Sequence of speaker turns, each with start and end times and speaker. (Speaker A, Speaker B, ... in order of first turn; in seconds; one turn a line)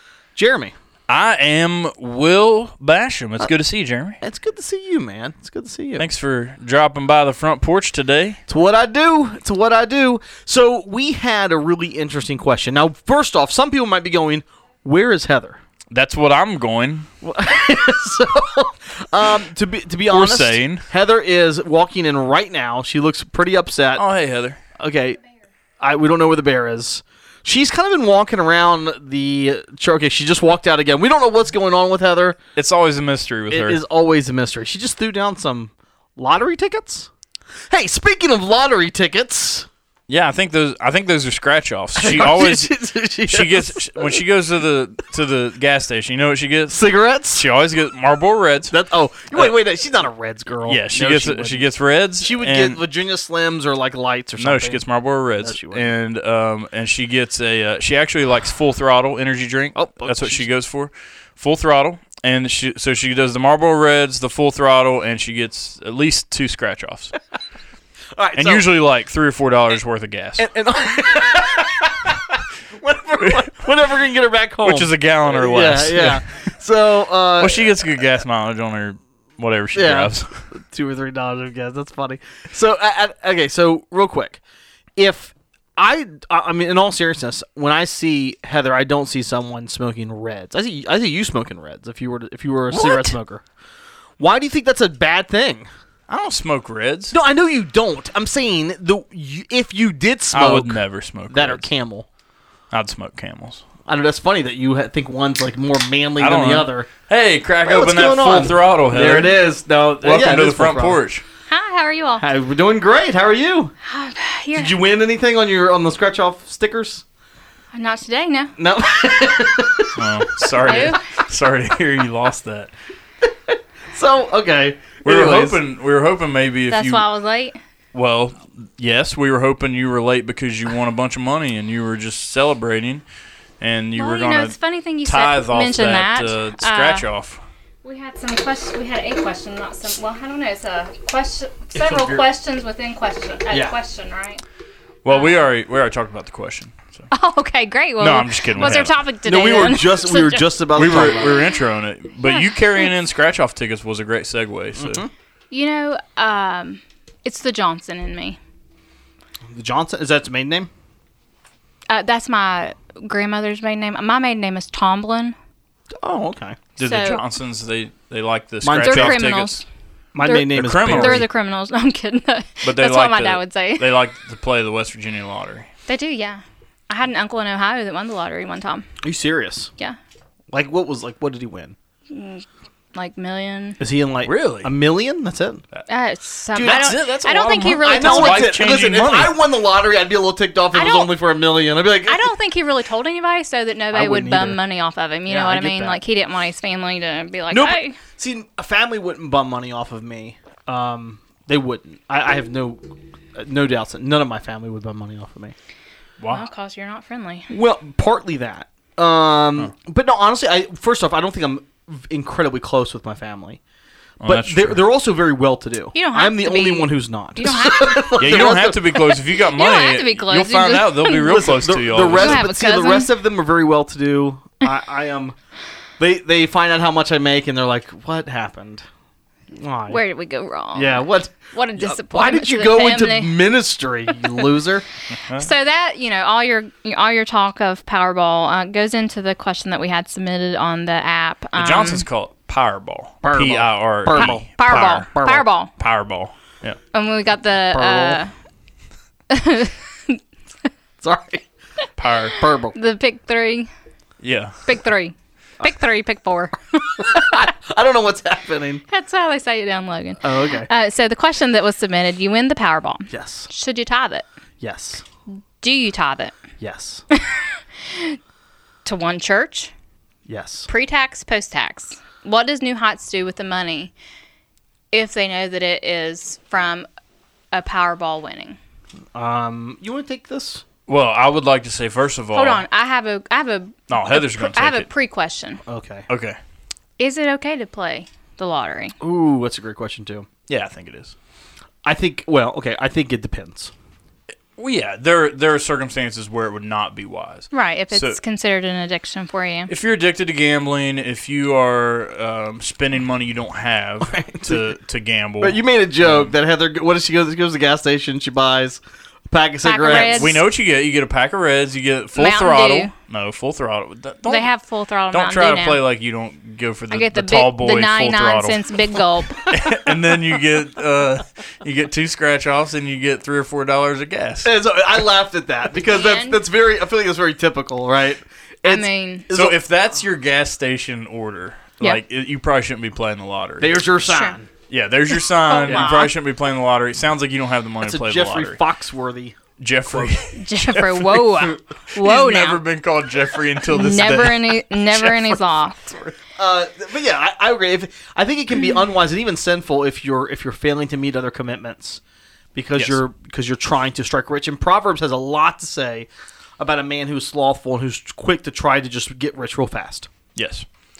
Speaker A: 0.3-0.7
Speaker B: 1.1-4.2
Speaker A: 4.2-6.0
Speaker B: 6.0-8.4
Speaker A: 8.5-15.6
Speaker B: 15.9-17.1
Speaker A: 17.2-24.0
Speaker B: 20.1-20.9
Speaker B: 23.9-24.6
Speaker A: 24.8-25.2
Speaker A: 25.8-32.4
Speaker B: 32.5-33.8
Speaker A: 33.5-37.1
Speaker A: 37.7-39.7
Speaker B: 40.1-42.7
Speaker A: 42.0-44.2
Speaker B: 43.2-46.8
Speaker A: 46.7-47.4
Speaker B: 47.3-48.7
Speaker A: 48.7-51.6
Speaker B: 50.6-52.8
Speaker A: 52.2-54.8
Speaker B: 54.4-67.1
Speaker A: 55.4-55.9
Speaker A: 59.7-60.5
Speaker A: 68.1-68.7
Speaker B: 68.3-70.4
Speaker A: 70.4-78.0
Speaker B: 74.6-76.2
Speaker B: 77.4-80.5
Speaker A: 79.7-84.4
Speaker A: 85.0-93.4
Speaker B: 92.7-93.1
Speaker A: 94.2-95.7
Speaker B: 96.1-97.1
Speaker A: 97.1-102.1
Speaker B: 100.3-101.7
Speaker B: 102.7-103.6
Speaker A: 103.8-106.9
Speaker B: 106.2-109.4
Speaker A: 107.6-111.0
Speaker B: 110.0-111.2
Speaker C: 111.5-112.2
Speaker A: 112.2-113.7
Speaker C: 113.8-114.8
Speaker A: 114.5-117.0
Speaker C: 117.7-118.5
Speaker A: 118.6-121.0
Speaker B: 119.9-122.7
Speaker C: 120.6-121.0
Speaker A: 123.5-125.6
Speaker B: 125.0-127.0
Speaker C: 126.7-127.6
Speaker B: 127.9-133.0
Speaker B: 133.6-137.4
Speaker C: 133.9-137.0
Speaker C: 137.8-144.4
Speaker A: 141.8-142.2
Speaker A: 143.5-143.7
Speaker B: 145.0-147.1
Speaker C: 145.1-145.4
Speaker C: 147.1-150.6
Speaker B: 148.0-148.9
Speaker A: 149.2-151.4
Speaker B: 150.7-155.0
Speaker C: 152.2-152.9
Speaker A: 154.8-155.1
Speaker C: 155.5-158.4
Speaker A: 159.5-160.7
Speaker C: 161.9-165.3
Speaker A: 166.0-166.7
Speaker B: 166.8-169.6
Speaker C: 166.8-167.2
Speaker A: 168.6-169.3
Speaker C: 168.8-169.6
Speaker A: 170.1-171.3
Speaker C: 170.2-173.9
Speaker B: 170.5-171.3
Speaker B: 172.6-175.7
Speaker C: 175.9-178.8
Speaker A: 179.0-179.7
Speaker A: 180.5-181.7
Speaker C: 182.1-183.8
Speaker A: 183.8-185.6
Speaker B: 184.2-184.7
Speaker C: 185.9-188.6
Speaker A: 186.5-187.0
Speaker B: 186.6-189.3
Speaker A: 187.8-192.3
Speaker C: 190.7-191.1
Speaker C: 192.0-198.0
Speaker A: 193.9-194.6
Speaker A: 195.3-196.0
Speaker A: 197.5-205.5
Speaker C: 206.3-207.5
Speaker A: 207.5-213.6
Speaker B: 214.2-214.8
Speaker A: 214.2-218.9
Speaker C: 215.9-221.4
Speaker B: 218.2-222.4
Speaker A: 221.1-225.3
Speaker C: 222.1-223.1
Speaker A: 226.0-228.8
Speaker A: 229.5-230.0
Speaker C: 229.9-233.3
Speaker A: 230.7-234.8
Speaker B: 235.1-235.5
Speaker C: 235.3-242.1
Speaker B: 241.6-245.1
Speaker A: 243.2-245.4
Speaker C: 244.1-245.7
Speaker B: 245.8-246.8
Speaker C: 246.9-248.3
Speaker A: 247.7-248.2
Speaker C: 249.3-250.2
Speaker A: 251.0-251.4
Speaker B: 252.0-252.4
Speaker A: 252.3-252.8
Speaker C: 252.7-253.7
Speaker B: 254.2-254.6
Speaker C: 254.6-257.3
Speaker A: 257.0-258.8
Speaker C: 258.9-264.2
Speaker A: 260.2-260.7
Speaker A: 263.1-263.5
Speaker A: 264.6-265.0
Speaker C: 265.6-266.3
Speaker A: 266.6-267.0
Speaker C: 267.1-268.2
Speaker C: 268.8-269.7
Speaker A: 270.2-270.7
Speaker C: 270.7-273.9
Speaker C: 274.9-276.9
Speaker C: 277.5-278.6
Speaker A: 279.1-280.6
Speaker B: 280.9-282.6
Speaker C: 282.3-285.6
Speaker B: 283.9-284.9
Speaker A: 285.6-286.1
Speaker B: 286.1-286.4
Speaker C: 287.0-288.9
Speaker A: 289.0-290.3
Speaker B: 290.5-291.1
Speaker A: 291.8-293.7
Speaker B: 294.6-298.2
Speaker C: 297.5-299.7
Speaker B: 299.7-306.3
Speaker A: 304.0-304.8
Speaker A: 305.4-310.4
Speaker C: 309.6-310.4
Speaker B: 309.9-314.5
Speaker C: 312.1-312.9
Speaker C: 314.2-315.8
Speaker B: 315.1-324.5
Speaker C: 316.9-319.5
Speaker A: 319.5-320.0
Speaker A: 324.4-329.6
Speaker C: 325.8-326.4
Speaker C: 328.6-329.3
Speaker B: 329.3-333.8
Speaker A: 333.6-334.5
Speaker C: 334.1-334.4
Speaker B: 334.7-338.6
Speaker C: 335.1-336.1
Speaker A: 335.6-336.1
Speaker A: 337.8-340.2
Speaker B: 339.6-346.1
Speaker C: 340.3-342.6
Speaker C: 343.7-345.9
Speaker A: 346.3-352.0
Speaker A: 352.5-360.1
Speaker B: 352.7-353.0
Speaker B: 360.4-360.6